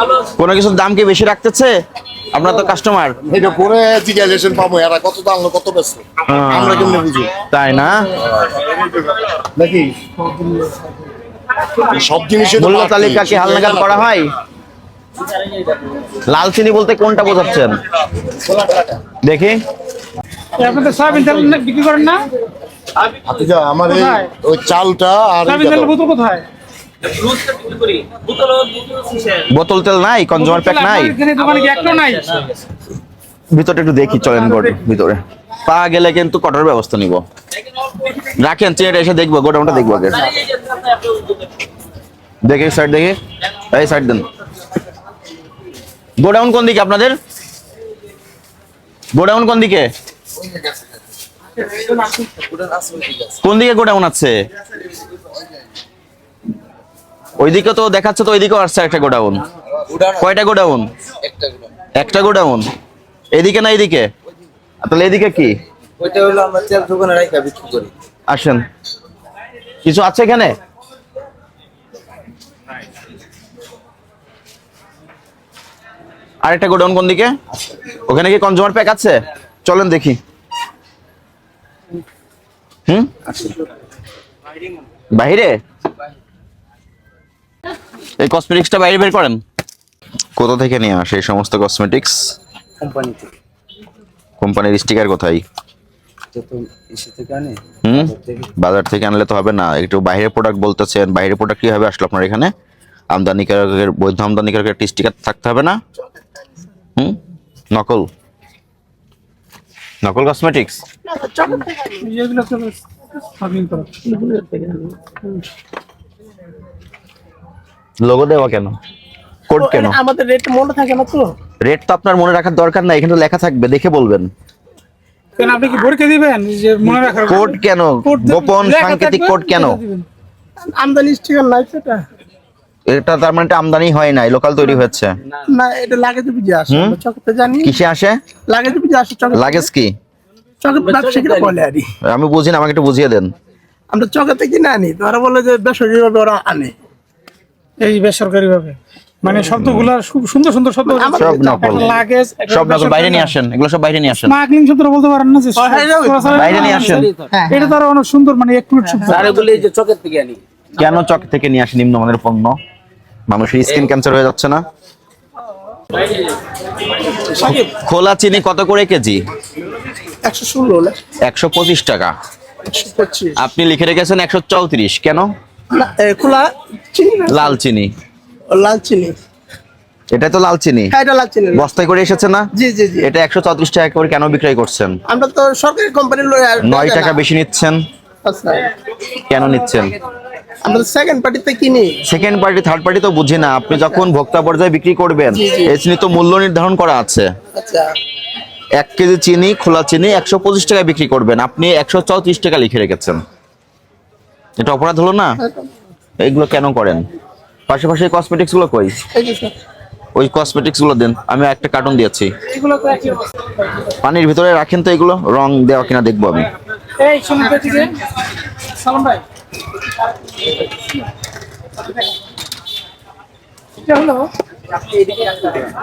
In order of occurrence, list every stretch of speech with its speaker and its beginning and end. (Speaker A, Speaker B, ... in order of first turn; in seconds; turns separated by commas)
Speaker A: 0.3-1.7, Speaker A: 2.3-3.1, Speaker B: 3.2-6.0, Speaker A: 6.3-8.0, Speaker B: 6.7-7.3, Speaker B: 9.5-9.9, Speaker B: 11.9-13.9, Speaker A: 12.6-14.3, Speaker A: 16.2-17.8, Speaker A: 19.2-19.6, Speaker C: 20.6-22.2, Speaker B: 23.2-25.9, Speaker C: 23.9-24.3, Speaker C: 25.4-26.4, Speaker D: 27.7-28.8, Speaker A: 29.4-31.2, Speaker C: 30.3-32.4, Speaker A: 33.5-37.2, Speaker C: 34.2-34.8, Speaker A: 38.1-40.3, Speaker A: 42.4-43.2, Speaker A: 43.7-44.2, Speaker A: 46.2-47.1, Speaker A: 49.1-49.9, Speaker D: 52.0-53.3, Speaker A: 53.4-54.3, Speaker A: 57.4-59.4, Speaker D: 59.9-60.2, Speaker A: 60.1-60.9, Speaker D: 61.3-61.6, Speaker A: 62.0-62.6, Speaker A: 63.3-64.0, Speaker A: 64.8-65.5, Speaker D: 66.0-67.9, Speaker A: 68.3-68.6, Speaker A: 69.8-70.5, Speaker A: 76.4-77.3, Speaker A: 78.0-80.2, Speaker A: 82.9-83.2, Speaker A: 85.1-85.5, Speaker A: 88.2-89.4, Speaker A: 90.4-92.3, Speaker D: 92.8-93.3, Speaker A: 94.4-95.4, Speaker D: 96.3-98.5, Speaker A: 97.8-102.5, Speaker A: 103.1-105.8, Speaker A: 107.7-108.1, Speaker A: 110.0-110.8, Speaker E: 111.0-112.0, Speaker C: 112.0-112.8, Speaker C: 113.4-113.9, Speaker E: 114.0-115.4, Speaker A: 118.0-118.7, Speaker A: 119.5-120.0, Speaker E: 119.5-121.3, Speaker A: 121.6-124.3, Speaker C: 125.4-130.1, Speaker A: 127.3-129.8, Speaker E: 130.6-132.0, Speaker A: 132.9-135.2, Speaker E: 135.5-137.7, Speaker A: 136.7-137.0, Speaker A: 137.6-138.2, Speaker E: 138.5-139.7, Speaker A: 139.3-139.9, Speaker E: 140.6-141.9, Speaker D: 140.8-141.5, Speaker A: 142.0-143.3, Speaker E: 143.9-146.7, Speaker C: 147.8-153.3, Speaker A: 149.5-149.9, Speaker E: 150.9-151.9, Speaker A: 151.1-151.9, Speaker A: 152.5-154.3, Speaker C: 154.2-159.6, Speaker E: 155.6-157.7, Speaker A: 156.3-157.1, Speaker E: 158.9-159.3, Speaker D: 159.1-160.4, Speaker A: 160.8-162.6, Speaker A: 163.3-164.6, Speaker A: 167.4-169.2, Speaker E: 170.2-171.0, Speaker A: 171.2-172.1, Speaker E: 172.7-173.4, Speaker A: 173.4-175.3, Speaker E: 175.7-177.5, Speaker A: 177.3-177.9, Speaker E: 178.5-179.1, Speaker A: 180.1-180.9, Speaker E: 180.9-181.7, Speaker A: 181.5-182.5, Speaker E: 182.5-183.1, Speaker A: 183.0-184.9, Speaker E: 185.1-187.2, Speaker A: 186.6-187.8, Speaker E: 188.2-188.7, Speaker A: 189.2-189.9, Speaker E: 190.6-192.0, Speaker A: 192.1-197.3, Speaker E: 193.7-194.1, Speaker E: 195.3-195.7, Speaker E: 197.5-197.9, Speaker A: 198.8-203.2, Speaker A: 204.6-205.3, Speaker E: 205.4-205.7, Speaker A: 206.2-207.0, Speaker A: 207.7-208.9, Speaker E: 209.1-209.5, Speaker A: 210.1-212.3, Speaker C: 212.5-213.2, Speaker A: 214.0-216.5, Speaker C: 217.0-217.9, Speaker C: 218.8-219.2, Speaker C: 223.9-224.2